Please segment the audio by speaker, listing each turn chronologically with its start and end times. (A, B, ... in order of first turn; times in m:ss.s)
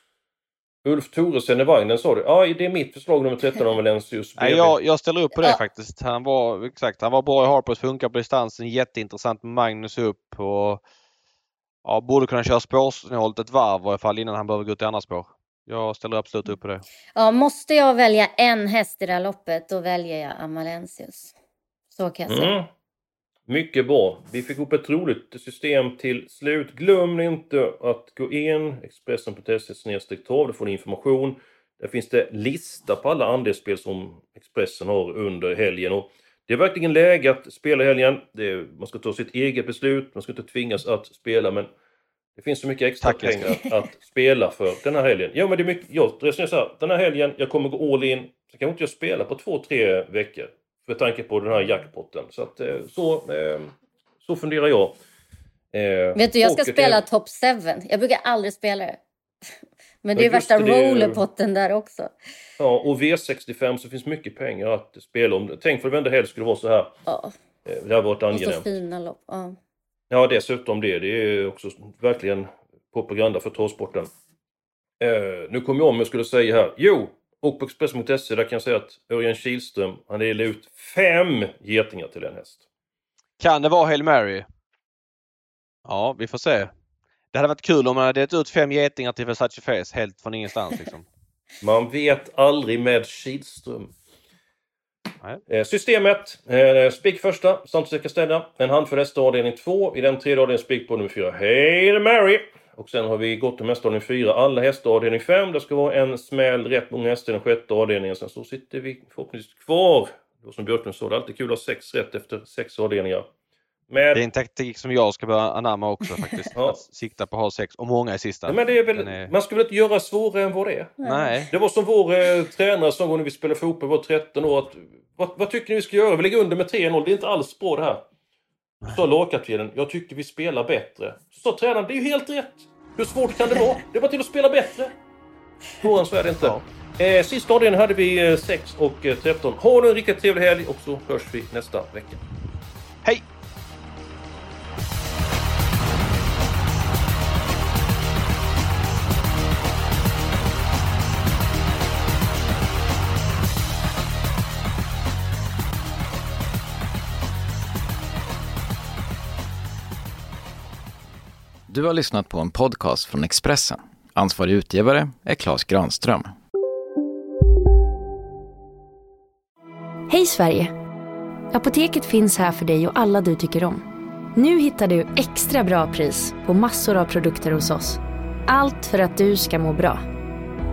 0:00.8-0:04.8 A
0:04.4-0:10.8 B
0:11.8-0:16.8 B
0:17.2-0:21.4 C
0:22.0-0:22.5 C
0:22.3-0:22.7 A
0:23.5-0:41.7 A
0:42.4-0:55.0 A
0:43.0-0:43.6 B
0:55.7-0:57.0 A
0:56.2-0:59.0 C
1:00.0-1:02.1 C
1:00.2-1:01.2 A
1:02.6-1:07.0 A
1:07.1-1:07.3 C
1:07.7-1:08.7 A
1:08.3-1:09.6 C
1:10.1-1:14.1 A
1:15.0-1:22.6 A
1:23.4-1:24.5 B
1:25.8-1:26.7 B
1:27.3-1:31.1 B
1:31.6-1:33.9 A
1:35.5-1:53.3 A
1:53.9-1:54.2 A
1:54.1-1:59.3 B
1:56.6-1:56.8 A
1:58.5-2:01.0 A
2:01.0-2:01.4 C
2:01.0-2:01.5 B
2:01.5-2:08.0 A
2:08.9-2:14.9 A
2:15.8-2:22.2 A
2:41.7-2:46.3 D
2:50.1-2:50.7 E
2:51.5-3:00.0 E